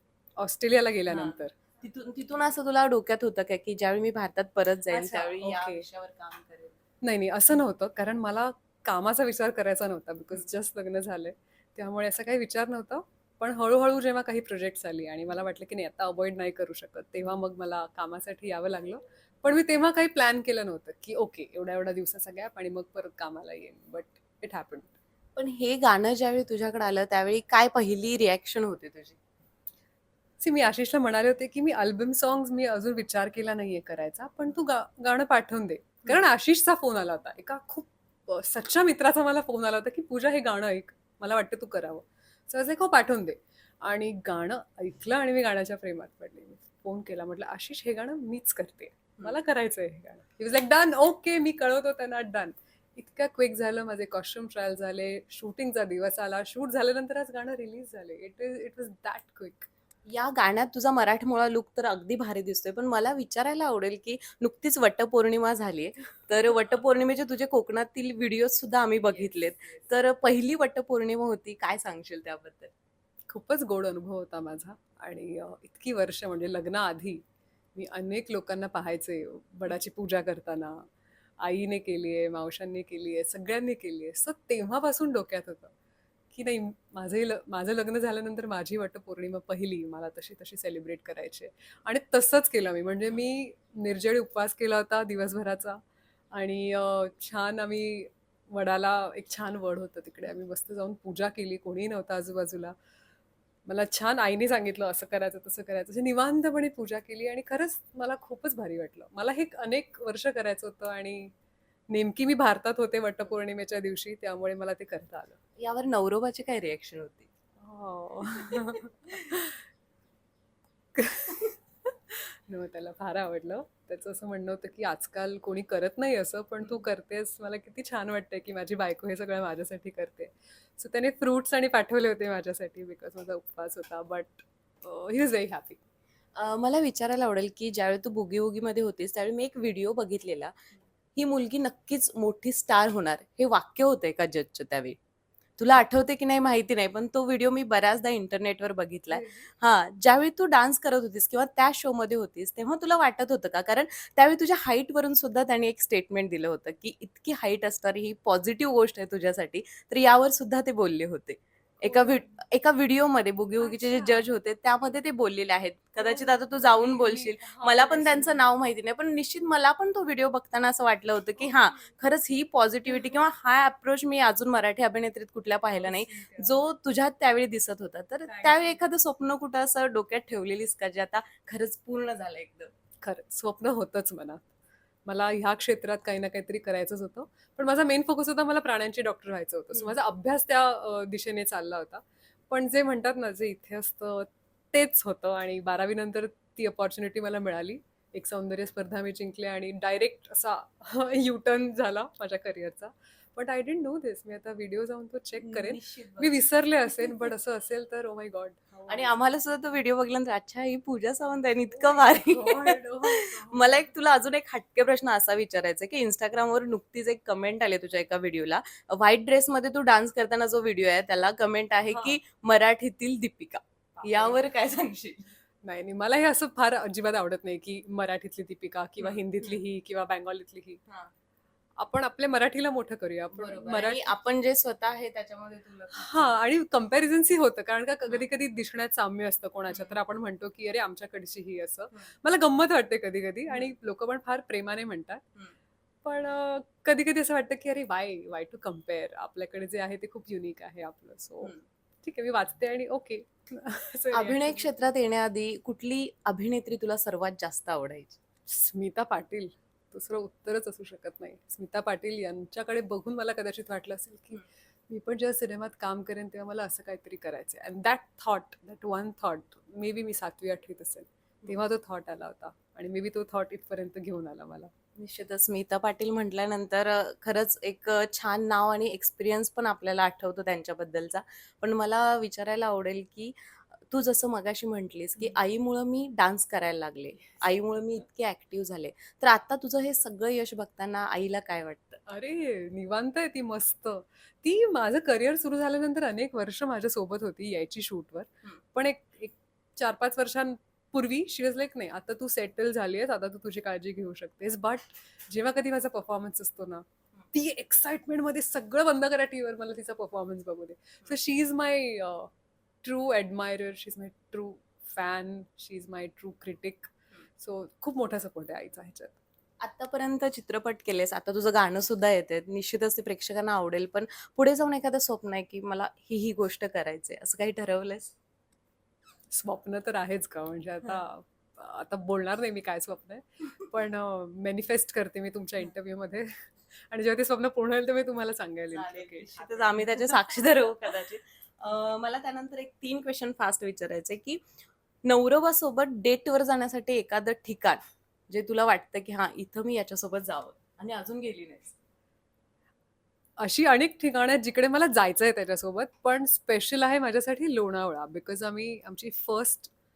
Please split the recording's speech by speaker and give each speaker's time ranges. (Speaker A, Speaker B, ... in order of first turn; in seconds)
Speaker A: 0.4-1.5, 4.9-5.8, 7.0-24.9, 30.4-59.7, 73.3-77.2, 77.7-80.8, 81.4-85.7, 86.3-95.8, 96.3-102.7, 103.7-111.3, 111.9-115.4, 117.6-119.6, 121.0-135.8, 149.1-149.5, 161.8-162.2, 166.0-168.4, 175.7-176.6, 178.2-178.8, 183.0-184.4, 185.0-209.2, 211.7-213.9, 221.9-222.2, 224.0-224.4, 225.6-230.8, 231.8-234.1, 235.9-245.2, 246.0-254.8, 258.5-274.7, 292.1-312.3, 312.8-319.2, 329.3-336.3, 336.9-340.1, 353.4-359.7
Speaker B: 1.1-6.8, 25.4-29.2, 60.1-72.7, 115.6-117.3, 118.3-118.7, 136.3-140.6, 141.2-145.0, 145.6-182.7, 205.4-207.1, 208.9-225.3, 229.0-229.6, 233.3-236.3, 239.7-240.0, 254.1-258.2, 275.0-283.3, 283.9-292.0, 319.6-328.1, 338.7-344.4, 345.0-351.8